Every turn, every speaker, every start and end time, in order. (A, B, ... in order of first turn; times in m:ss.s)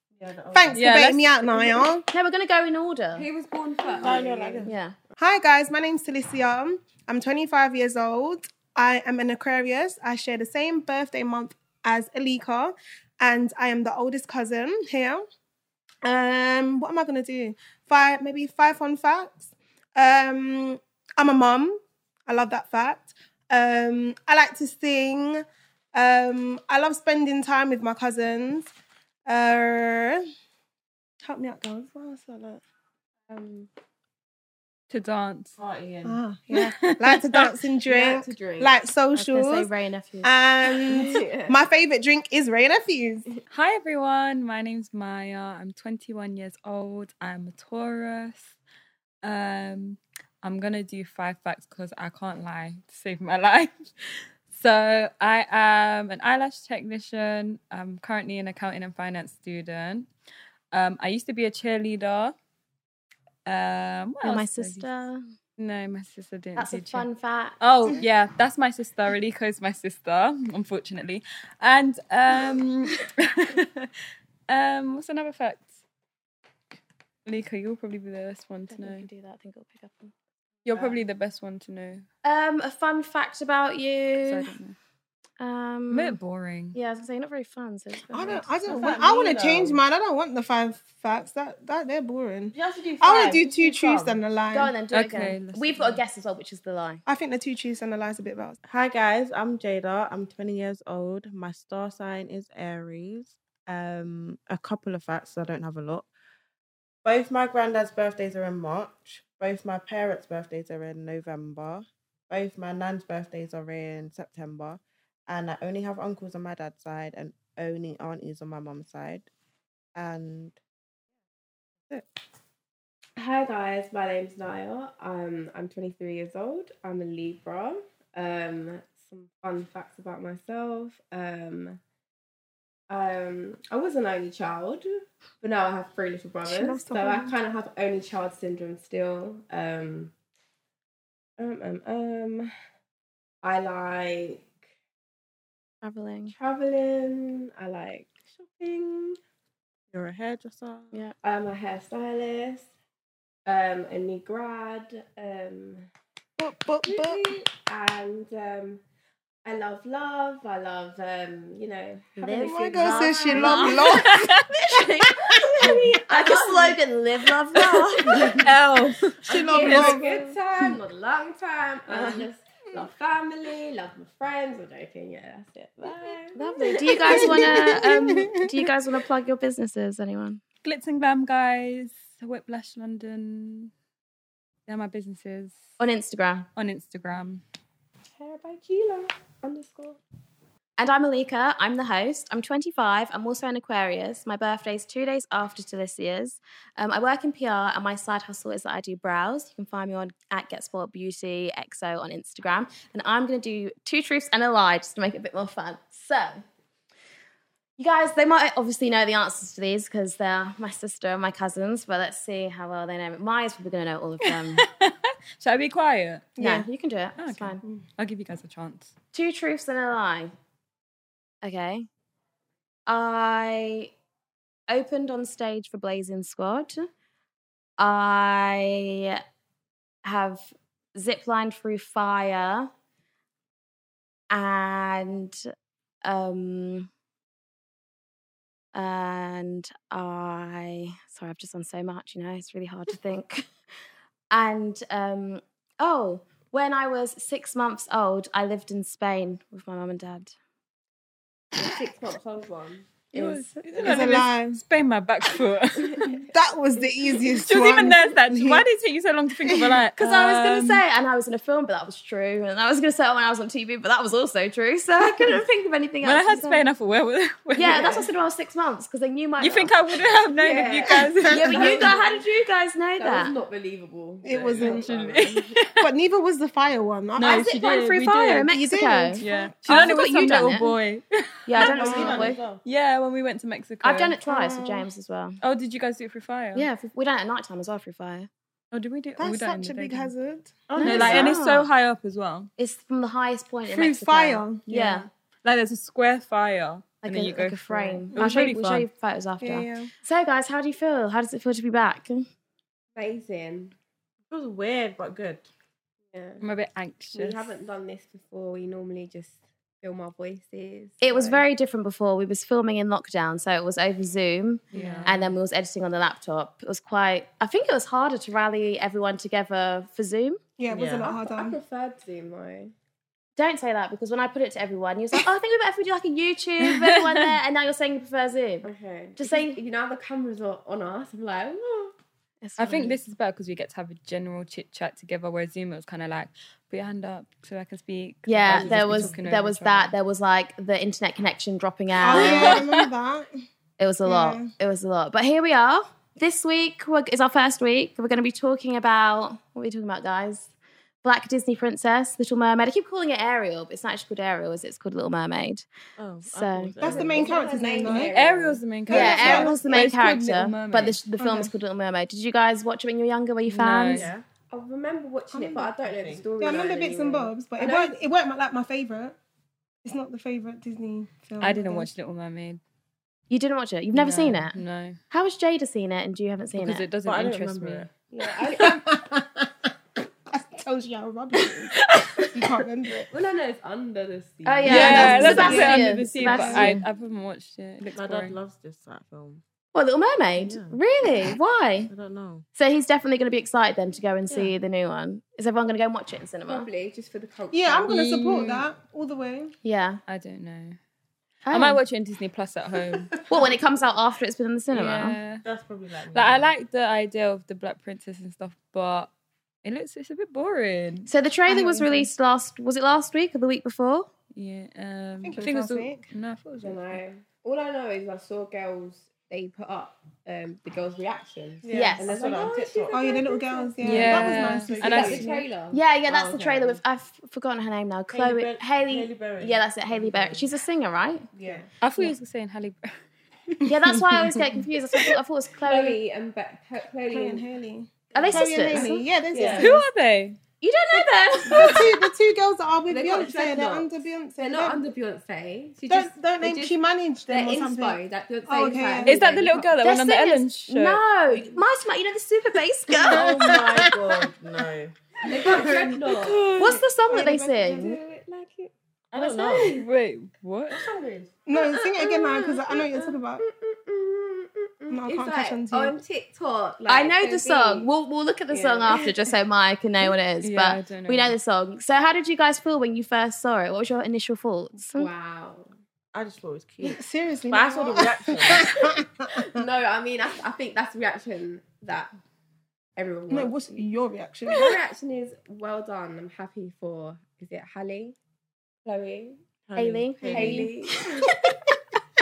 0:00.2-0:00.9 A
0:00.5-0:02.1 B
0:00.7-0:01.8 C
0:02.1-0:03.3 D
0:03.2-0:04.7 E
0:04.0-0:04.3 B
0:04.0-0:04.7 A
0:04.6-0:05.0 D
0:05.2-0:15.3 B
0:16.0-0:28.7 B
0:29.3-0:30.2 B
0:31.2-0:32.6 B
0:33.3-0:33.7 E
0:34.9-0:35.6 C
0:35.6-0:36.2 A
0:36.0-0:39.7 B
0:36.5-0:37.5 C
0:37.9-0:38.8 E
0:39.1-0:40.3 D
0:40.2-0:43.3 B
0:40.7-0:41.6 E
0:43.5-0:48.5 C
0:49.2-0:53.8 C
0:54.5-1:00.1 C
1:00.7-1:02.3 C
1:03.5-1:04.9 C
1:04.2-1:05.2 D
1:05.6-1:07.1 C
1:06.6-1:08.0 D
1:07.6-1:13.9 C
1:14.5-1:15.8 C
1:17.2-1:19.1 C
1:18.7-1:20.1 D
1:20.6-1:22.0 C
1:22.2-1:24.5 D
1:24.2-1:24.8 C
1:25.4-1:26.2 D
1:25.9-1:26.8 C
1:26.7-1:28.5 D
1:28.1-1:34.7 B
1:28.6-1:29.8 A
1:32.5-1:34.2 A
1:34.5-1:37.0 D
1:34.9-1:36.0 C
1:37.1-1:38.6 B
1:38.6-1:46.1 A
1:47.0-1:59.3 A
2:00.0-2:00.6 A
2:03.2-2:11.8 E
2:12.9-2:20.1 E
2:16.4-2:17.3 B
2:21.4-2:22.5 E
2:23.4-2:24.5 E
2:25.8-2:26.4 D
2:26.3-2:29.2 E
2:29.9-2:31.0 A
2:31.2-2:32.7 E
2:33.5-2:35.9 E
2:36.4-2:37.2 B
2:36.9-2:38.8 E
2:39.4-2:43.9 E
2:42.2-2:48.4 D
2:42.4-2:44.2 B
2:43.9-2:44.6 C
2:45.6-2:46.8 E
2:47.6-2:49.2 C
2:48.1-2:48.5 B
2:48.1-2:48.5 E
2:49.2-2:57.7 E
2:49.3-2:50.8 B
2:56.4-3:00.4 D
2:57.0-2:58.7 B
3:00.6-3:03.7 C
3:04.7-3:05.6 C
3:05.8-3:06.5 D
3:06.6-3:07.4 C
3:08.2-3:10.0 E
3:10.8-3:26.4 D
3:27.8-3:34.6 D
3:34.2-3:36.3 C
3:36.4-3:36.7 B
3:36.4-3:37.6 D
3:37.2-3:38.9 C
3:39.1-3:40.3 D
3:41.4-3:41.9 D
3:42.9-3:43.9 D
3:44.7-3:46.9 D
3:47.8-3:49.2 D
3:50.0-3:52.7 D
3:54.3-3:55.5 D
3:56.0-3:56.9 D
3:58.7-4:03.5 D
4:04.3-4:10.3 D
4:11.6-4:14.2 E
4:13.1-4:16.2 C
4:13.8-4:14.6 B
4:15.8-4:16.4 E
4:16.2-4:18.7 B
4:17.4-4:20.8 C
4:19.4-4:19.8 B
4:20.0-4:26.6 D
4:26.0-4:28.0 C
4:27.6-4:29.7 D
4:27.7-4:28.0 E
4:29.4-4:31.9 C
4:30.4-4:32.2 E
4:30.9-4:31.9 B
4:31.3-4:33.3 D
4:33.0-4:35.5 E
4:34.2-4:34.9 B
4:34.6-4:35.9 C
4:35.8-4:37.6 B
4:37.2-4:38.5 C
4:37.2-4:40.7 D
4:38.5-4:40.5 B
4:39.2-4:42.1 C
4:41.5-4:42.4 D
4:41.6-4:42.4 B
4:41.6-4:42.6 A
4:42.6-4:44.2 C
4:43.8-4:45.4 D
4:44.2-4:44.9 B
4:45.4-4:46.7 C
4:46.6-4:48.3 D
4:48.7-4:50.1 C
4:49.2-4:51.4 B
4:50.7-4:52.5 C
4:50.8-4:51.7 D
4:52.6-4:55.1 D
4:53.7-4:54.7 B
4:54.7-4:58.9 C
4:57.0-5:02.3 D
4:58.2-4:58.5 B
4:59.4-4:59.9 B
5:03.0-5:03.7 E
5:04.3-5:05.4 A
5:06.1-5:06.4 E
5:06.4-5:07.5 C
5:07.1-5:11.5 E
5:11.0-5:20.4 D
5:14.7-5:15.2 C
5:14.7-5:15.2 A
5:20.6-5:21.6 B
5:20.7-5:21.1 A
5:21.0-5:22.7 E
5:23.4-5:29.6 D
5:26.6-5:27.4 C
5:28.6-5:31.9 E
5:32.4-5:33.0 D
5:32.6-5:39.9 C
5:38.3-5:42.6 D
5:38.4-5:39.2 A
5:42.0-5:43.3 B
5:42.1-5:42.9 C
5:43.8-5:50.5 D
5:44.0-5:44.5 B
5:51.0-5:55.7 D
5:56.0-5:57.3 A
5:56.2-5:56.8 D
5:56.8-5:58.1 B
5:56.8-5:58.9 E
5:58.1-6:01.0 C
5:58.9-5:59.7 B
5:58.9-6:04.1 D
6:01.2-6:01.5 B
6:03.5-6:04.1 C
6:03.9-6:04.2 A
6:04.5-6:08.0 E
6:05.3-6:05.7 B
6:05.8-6:06.6 A
6:06.4-6:09.2 B
6:09.8-6:11.9 B
6:11.4-6:12.6 C
6:13.3-6:14.6 D
6:13.9-6:15.0 C
6:15.1-6:16.9 D
6:16.6-6:17.9 C
6:17.0-6:17.9 A
6:18.1-6:18.8 E
6:18.6-6:19.5 B
6:20.3-6:23.1 B
6:21.8-6:22.4 C
6:23.1-6:25.7 E
6:24.4-6:26.8 D
6:24.7-6:28.4 C
6:24.7-6:26.7 B
6:27.9-6:29.4 A
6:29.7-6:31.9 D
6:30.4-6:30.8 A
6:31.9-6:32.4 A
6:32.6-6:36.7 D
6:36.5-6:38.0 E
6:37.5-6:39.6 B
6:37.9-6:38.7 C
6:39.6-6:40.0 D
6:40.1-6:40.8 C
6:41.5-6:41.8 D
6:41.5-6:43.2 C
6:43.3-6:45.2 D
6:44.7-6:45.4 C
6:45.4-6:46.5 A
6:46.1-6:49.1 C
6:49.6-6:51.1 C
6:51.1-6:54.1 D
6:51.5-6:52.1 B
6:54.4-6:57.0 C
6:55.2-6:56.1 B
6:56.6-7:06.8 E
7:01.6-7:02.0 B
7:01.7-7:02.0 D
7:02.0-7:03.0 A
7:02.9-7:05.2 B
7:03.8-7:05.4 C
7:03.9-7:05.2 A
7:05.7-7:11.3 D
7:08.1-7:10.5 A
7:11.4-7:11.6 A
7:11.4-7:11.7 E
7:11.8-7:12.9 C
7:13.6-7:14.0 B
7:13.7-7:16.0 D
7:15.7-7:17.4 E
7:17.1-7:19.8 B
7:18.1-7:19.8 E
7:18.1-7:19.0 D
7:19.5-7:20.4 C
7:20.6-7:21.9 D
7:20.9-7:24.8 B
7:21.5-7:21.9 E
7:22.9-7:26.8 E
7:25.9-7:29.2 B
7:27.3-7:29.8 E
7:29.0-7:31.0 C
7:29.8-7:33.4 D
7:33.1-7:34.0 B
7:33.1-7:35.0 A
7:35.2-7:36.6 E
7:35.4-7:38.0 B
7:36.2-7:36.8 C
7:36.6-7:38.0 D
7:37.8-7:39.8 E
7:39.1-7:39.8 A
7:39.4-7:40.9 C
7:40.7-7:47.9 E
7:41.5-7:43.4 B
7:44.9-7:46.0 B
7:46.9-7:55.1 D
7:48.5-7:49.3 E
7:50.4-7:51.4 C
7:54.9-7:55.7 E
7:56.1-7:58.8 A
7:56.8-7:59.6 B
7:58.6-8:02.1 E
8:03.0-8:03.8 E
8:03.3-8:04.8 B
8:04.5-8:08.2 E
8:08.8-8:09.4 E
8:09.7-8:10.7 A
8:09.8-8:10.7 D
8:10.2-8:11.3 E
8:11.1-8:11.7 B